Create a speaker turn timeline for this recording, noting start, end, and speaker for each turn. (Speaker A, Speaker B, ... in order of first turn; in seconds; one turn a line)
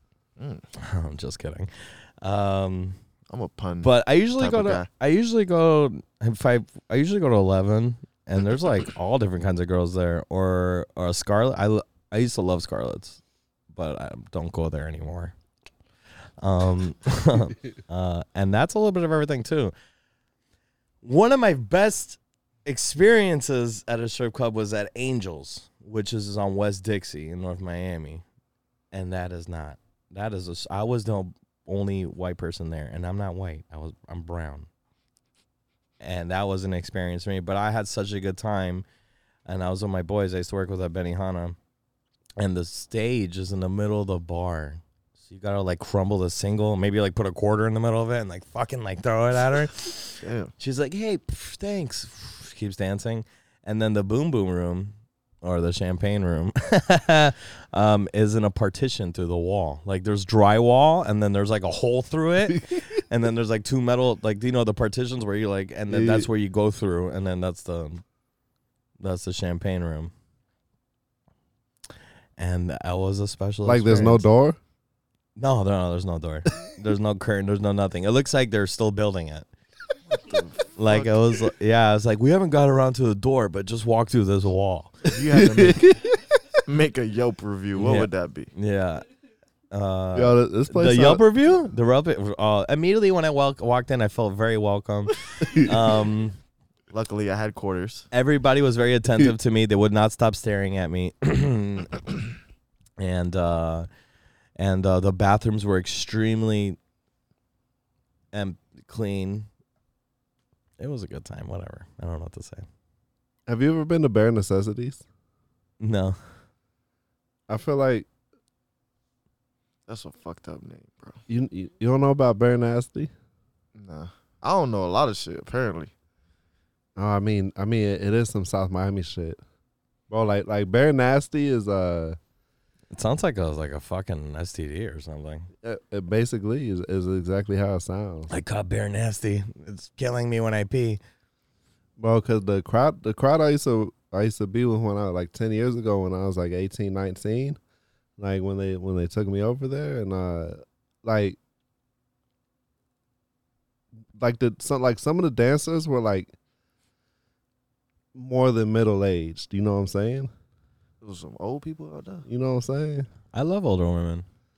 Speaker A: 0.4-0.6
Speaker B: 0.8-3.0
Speaker A: 3.3-4.9
Speaker B: 3.8-13.2
Speaker B: 13.7-15.3
Speaker B: 16.4-19.7
Speaker B: 21.0-28.2
Speaker B: 28.9-34.7
Speaker B: 36.0-38.9
Speaker B: 39.5-41.6
Speaker B: 42.4-68.0
Speaker A: 50.2-50.5
Speaker C: 65.9-66.3
Speaker B: 69.0-70.1
Speaker B: 72.4-74.3
Speaker C: 73.7-74.6
Speaker B: 75.4-79.5
Speaker A: 80.1-81.3
Speaker B: 80.8-85.0
Speaker A: 85.1-86.0
Speaker C: 85.3-86.2
Speaker A: 86.6-88.5
Speaker B: 87.8-89.0
Speaker B: 89.7-96.4
Speaker C: 90.1-91.2
Speaker A: 96.9-98.1
Speaker B: 98.1-102.0
Speaker B: 103.0-103.9
Speaker B: 104.6-106.8
Speaker B: 108.3-109.5
Speaker B: 110.8-112.7
Speaker C: 113.5-115.0
Speaker B: 115.8-116.2
Speaker C: 117.5-118.1
Speaker A: 119.9-121.2
Speaker C: 121.3-123.1
Speaker A: 123.8-125.9
Speaker C: 127.0-129.4
Speaker C: 130.1-132.2
Speaker B: 132.9-135.5
Speaker C: 135.6-138.3
Speaker B: 138.3-141.0
Speaker C: 142.0-147.6
Speaker C: 148.2-151.4
Speaker C: 154.2-156.3
Speaker C: 158.2-160.3
Speaker A: 161.0-162.3
Speaker C: 162.3-163.1
Speaker B: 163.3-164.2